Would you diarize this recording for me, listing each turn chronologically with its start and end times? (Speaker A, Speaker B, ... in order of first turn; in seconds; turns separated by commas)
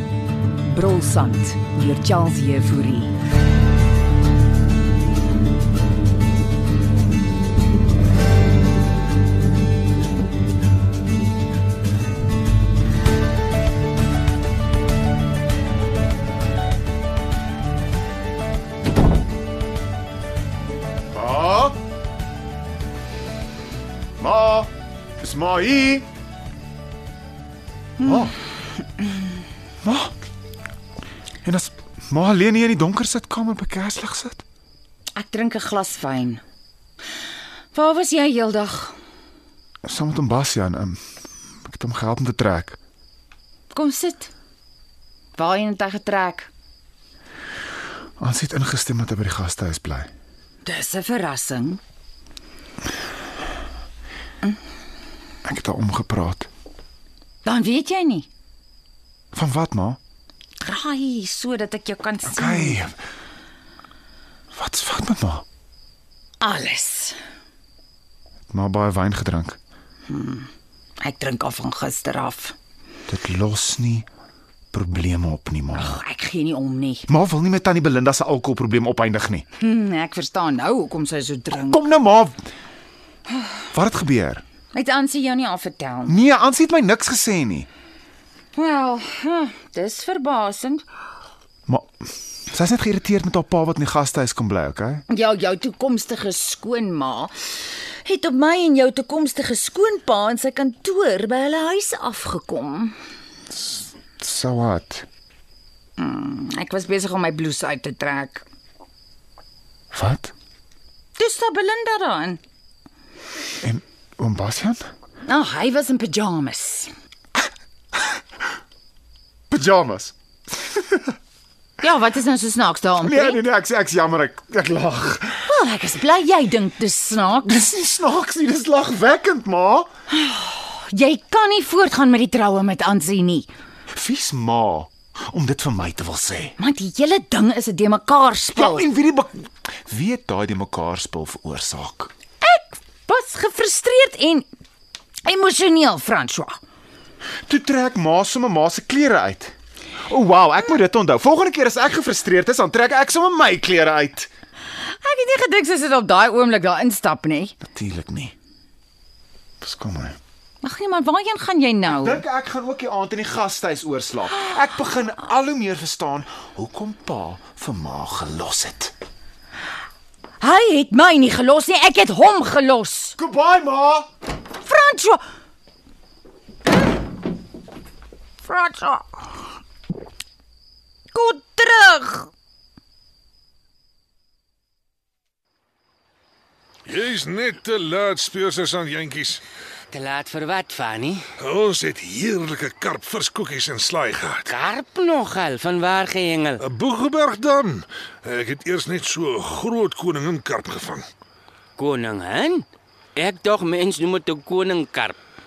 Speaker A: 0.7-3.1, Speaker B: 21.1-21.8, Speaker B: 24.2-26.1, Speaker C: 28.0-28.3, Speaker B: 28.0-28.3, Speaker B: 29.8-30.1, Speaker B: 31.4-34.4, Speaker C: 35.2-36.4, Speaker C: 37.7-38.9, Speaker B: 39.8-41.0, Speaker B: 41.6-42.8, Speaker C: 43.7-44.3, Speaker C: 45.4-46.5, Speaker B: 48.2-50.1, Speaker C: 50.6-51.8, Speaker B: 55.4-56.5, Speaker C: 57.4-58.3, Speaker B: 59.3-60.0, Speaker C: 60.6-62.8, Speaker B: 62.2-63.0, Speaker B: 64.5-65.4, Speaker C: 66.4-67.1, Speaker B: 68.5-69.6, Speaker C: 70.1-70.5, Speaker C: 71.0-72.5, Speaker B: 73.1-74.1, Speaker B: 74.7-76.0, Speaker C: 75.7-77.1, Speaker B: 77.1-79.5, Speaker C: 79.6-81.8, Speaker B: 81.7-82.4, Speaker B: 83.7-84.4, Speaker C: 84.7-86.1, Speaker B: 86.0-87.7, Speaker C: 88.5-90.8, Speaker B: 91.7-92.0, Speaker B: 92.5-95.0, Speaker C: 95.1-97.3, Speaker C: 98.0-102.9, Speaker B: 103.5-105.0, Speaker C: 106.0-108.4, Speaker B: 109.9-110.3, Speaker C: 111.2-112.4, Speaker B: 113.6-114.8, Speaker C: 115.2-116.9, Speaker B: 119.5-121.1, Speaker C: 121.8-123.4, Speaker B: 123.0-125.5, Speaker C: 125.5-127.7, Speaker B: 127.4-129.9, Speaker C: 130.1-133.5, Speaker B: 133.9-136.6, Speaker C: 136.6-138.9, Speaker B: 138.5-142.1, Speaker C: 142.4-144.4, Speaker C: 145.2-146.6, Speaker B: 147.5-149.5, Speaker B: 150.1-154.3, Speaker C: 154.8-157.5, Speaker B: 157.6-158.3, Speaker B: 159.6-160.2, Speaker C: 160.6-162.2, Speaker B: 161.8-168.9, Speaker C: 170.4-173.2, Speaker B: 173.2-174.1, Speaker C: 174.6-175.2, Speaker C: 178.4-179.2, Speaker C: 181.1-182.3, Speaker D: 186.8-189.4, Speaker E: 189.9-191.2, Speaker D: 191.4-194.5, Speaker E: 194.4-196.6, Speaker D: 196.6-201.1, Speaker E: 201.8-205.2